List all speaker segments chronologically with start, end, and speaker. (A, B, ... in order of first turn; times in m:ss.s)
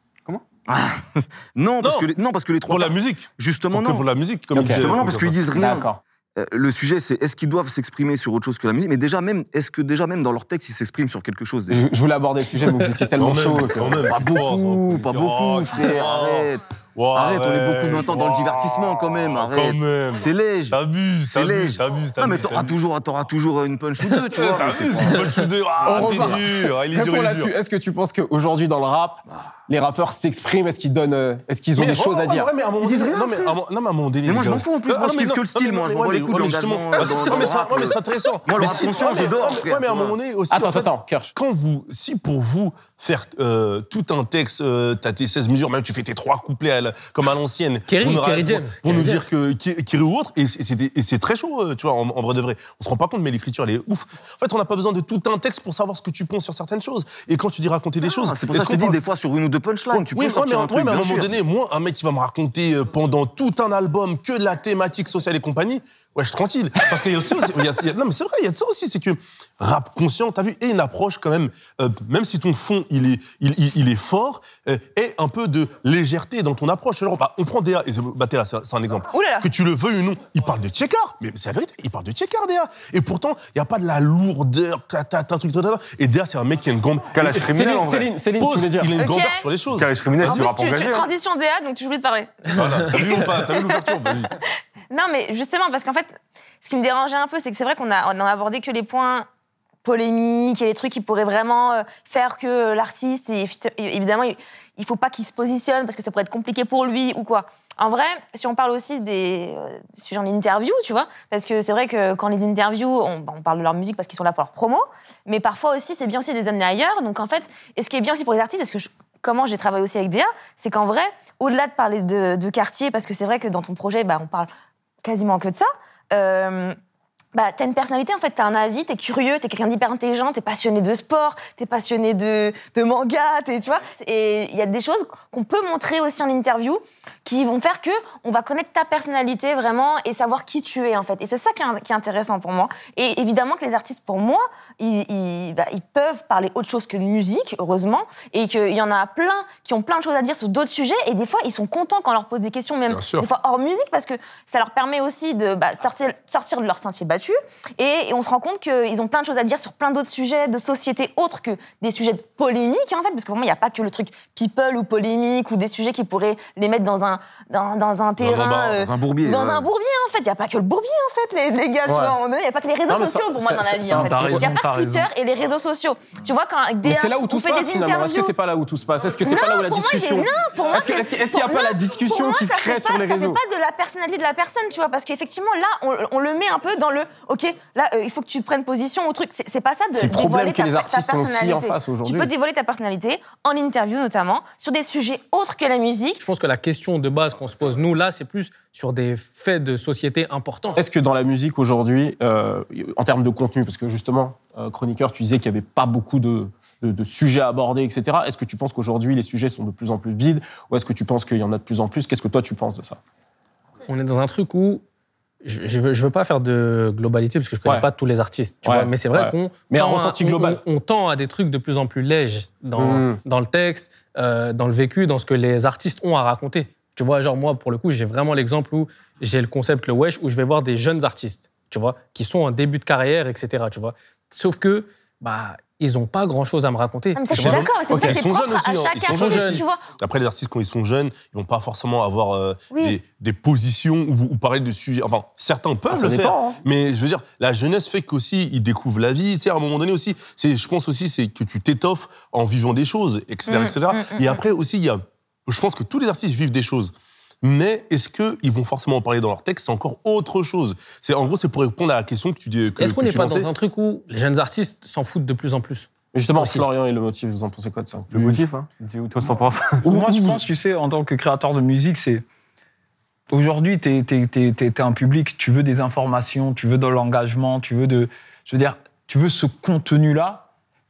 0:00.7-0:11.8 A
0:01.8-0:02.1 B
0:02.7-0:05.5 B
0:04.5-0:05.0 C
0:05.5-0:06.0 C
0:11.7-0:14.0 C
0:13.2-0:22.8 B
0:13.8-0:26.4 A
0:24.3-0:27.5 B
0:25.8-0:32.5 C
0:31.8-0:59.0 B
0:32.8-0:33.4 A
0:34.2-0:40.2 A
0:40.5-0:41.3 C
0:47.9-0:49.3 D
0:58.1-1:01.4 A
0:59.9-1:27.4 B
1:19.1-1:19.5 E
1:27.1-1:28.1 F
1:27.2-1:29.0 C
1:28.4-1:30.5 B
1:29.0-1:29.5 E
1:29.7-1:31.1 F
1:30.2-1:34.2 E
1:32.5-1:34.3 B
1:34.9-1:39.3 E
1:39.8-2:04.5 E
2:05.0-2:06.8 E
2:07.3-2:58.3 E
2:32.9-2:33.3 B
2:48.2-2:48.8 B
2:48.8-2:49.7 A
2:51.8-2:52.2 C
2:52.9-2:54.5 C
2:53.9-2:55.1 G
2:56.8-3:03.4 C
2:59.2-3:16.2 E
3:09.9-3:12.3 C
3:16.2-3:20.8 D
3:20.8-3:33.0 C
3:33.9-3:34.8 D
3:35.4-3:57.7 D
3:38.6-3:40.6 C
3:42.8-3:43.2 C
3:57.2-3:59.8 E
3:57.3-4:23.5 B
3:57.4-3:58.2 C
3:59.0-3:59.6 D
4:02.7-4:03.0 E
4:05.9-4:06.6 C
4:13.5-4:14.4 E
4:22.8-4:26.6 D
4:26.1-4:28.4 C
4:28.1-4:29.8 F
4:29.8-4:30.4 C
4:29.8-4:32.2 G
4:33.3-4:40.5 G